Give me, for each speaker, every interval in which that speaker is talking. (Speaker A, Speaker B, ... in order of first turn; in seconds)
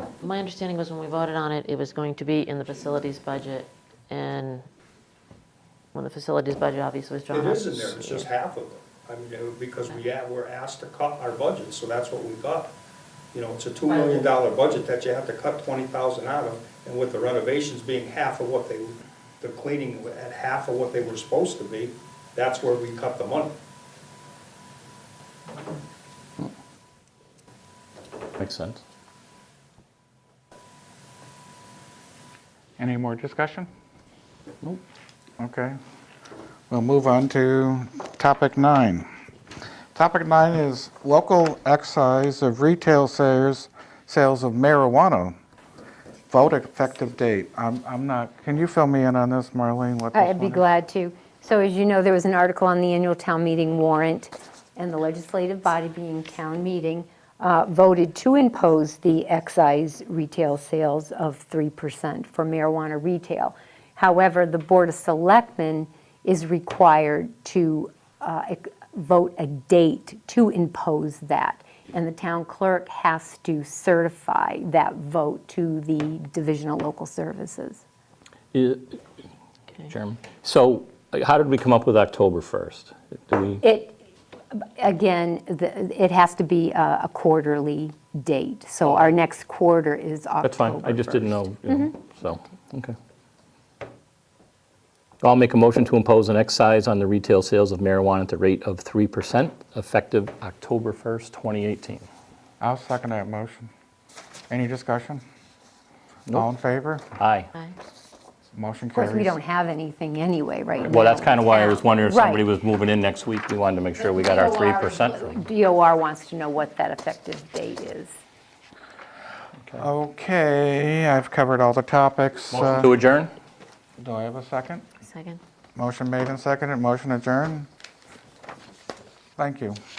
Speaker A: 0.2-4.7, 5.9-8.3, 125.0-125.4
Speaker B: 7.3-12.7, 13.3-23.6
Speaker C: 28.4-28.8, 78.5-79.0, 79.8-83.6, 90.4-92.9, 95.2-102.1, 107.2-107.5, 110.8-115.4, 122.5-123.3
Speaker D: 32.8-33.7, 35.4-35.8, 36.7-39.1, 39.9-45.4, 46.3-50.6, 102.6-103.7, 104.5-105.2, 106.3-107.0, 108.5-109.3, 119.8-122.9, 124.0-124.8, 125.8-127.7, 129.4-129.8
Speaker E: 50.1-77.8, 83.6-84.0, 84.5-91.9, 108.9-112.4, 114.0-118.1